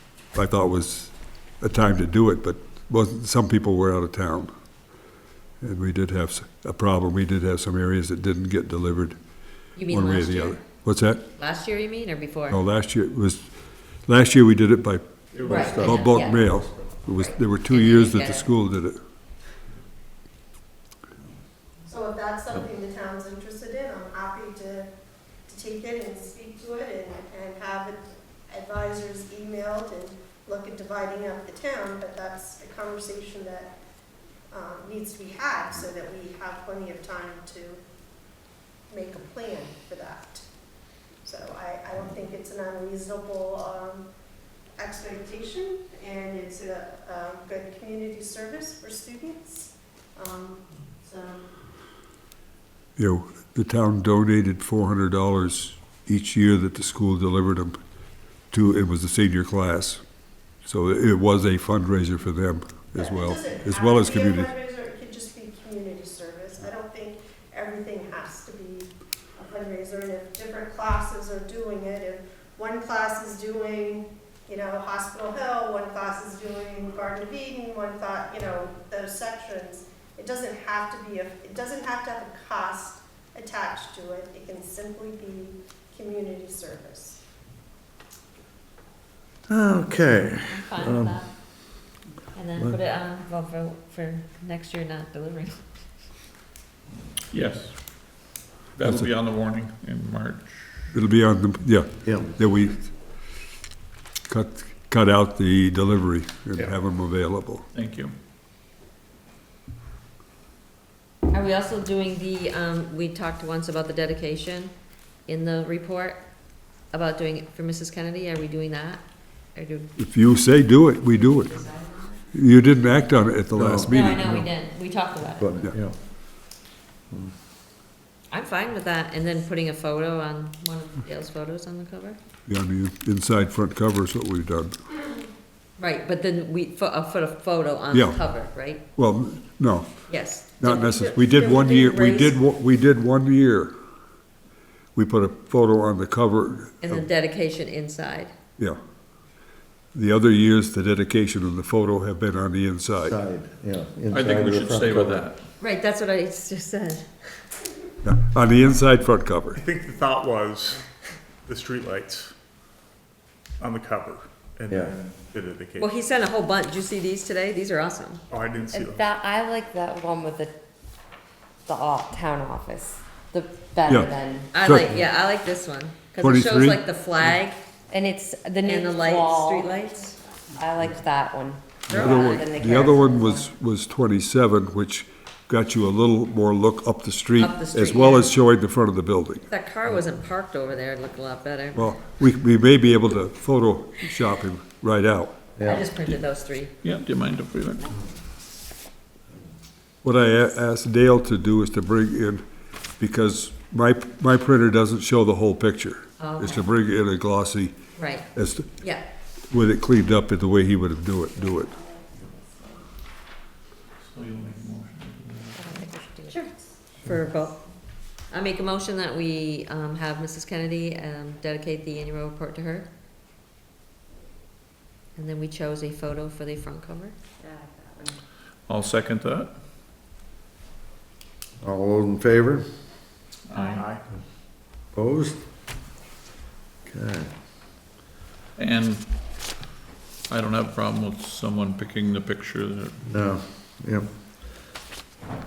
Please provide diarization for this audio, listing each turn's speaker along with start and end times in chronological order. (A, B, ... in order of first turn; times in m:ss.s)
0:00.3-0:04.5 A
0:05.6-0:09.2 A
0:09.8-0:10.6 B
0:09.9-0:11.2 A
0:11.4-0:12.6 B
0:12.5-0:13.5 A
0:14.1-0:19.0 A
0:15.4-0:16.0 C
0:15.4-0:18.5 B
0:21.8-0:24.9 D
0:25.5-0:33.7 D
0:34.5-0:37.8 D
0:38.9-0:40.4 D
0:41.2-0:44.1 D
0:44.8-0:51.4 D
0:53.0-0:57.8 A
0:58.5-1:00.0 A
1:00.6-1:04.5 A
1:03.0-1:27.2 D
1:29.5-1:31.8 C
1:30.4-1:31.4 B
1:32.3-1:35.7 B
1:37.3-1:40.9 E
1:38.8-1:39.1 A
1:40.9-1:43.0 A
1:42.0-1:42.3 C
1:44.3-1:47.6 A
1:47.7-1:48.1 E
1:51.3-1:54.7 B
1:55.3-1:56.2 B
1:56.9-1:59.9 B
2:00.0-2:01.5 A
2:01.1-2:02.2 B
2:02.3-2:04.4 A
2:03.5-2:04.5 C
2:03.9-2:05.6 B
2:05.3-2:06.4 C
2:08.3-2:12.2 B
2:12.5-2:14.8 A
2:15.8-2:18.8 B
2:17.9-2:18.2 A
2:19.0-2:23.7 A
2:20.1-2:22.4 B
2:25.0-2:26.8 A
2:26.8-2:28.3 B
2:29.9-2:33.2 A
2:33.0-2:35.3 C
2:34.1-2:35.4 E
2:35.6-2:37.1 B
2:38.0-2:39.6 A
2:39.6-2:40.8 F
2:41.4-2:42.3 F
2:43.6-2:45.9 F
2:45.8-2:48.2 B
2:48.3-2:49.1 F
2:48.7-2:50.5 G
2:51.7-2:54.5 G
2:53.9-2:55.0 A
2:54.5-2:57.6 B
2:56.2-2:56.8 A
2:57.9-3:03.5 G
2:58.6-3:00.2 B
3:01.9-3:02.5 B
3:01.9-3:09.5 A
3:07.4-3:08.3 B
3:09.5-3:11.9 B
3:11.8-3:15.4 A
3:15.6-3:15.9 C
3:15.6-3:16.7 B
3:16.8-3:17.9 E
3:20.0-3:22.4 A
3:23.0-3:27.8 A
3:26.2-3:26.7 B
3:28.0-3:29.0 B
3:28.3-3:28.7 A
3:29.5-3:31.8 A
3:31.5-3:32.8 G
3:34.0-3:35.6 E
3:35.6-3:36.5 G
3:37.0-3:37.6 B
3:38.3-3:42.9 B
3:45.2-3:47.2 B
3:47.4-3:48.2 G
3:48.7-3:49.6 E
3:51.6-3:52.7 C
3:53.5-3:53.8 E
3:53.7-3:54.0 F
3:54.9-3:55.4 C
3:56.9-3:57.3 C
3:58.6-3:59.5 E
4:00.3-4:03.0 E
4:03.0-4:04.1 C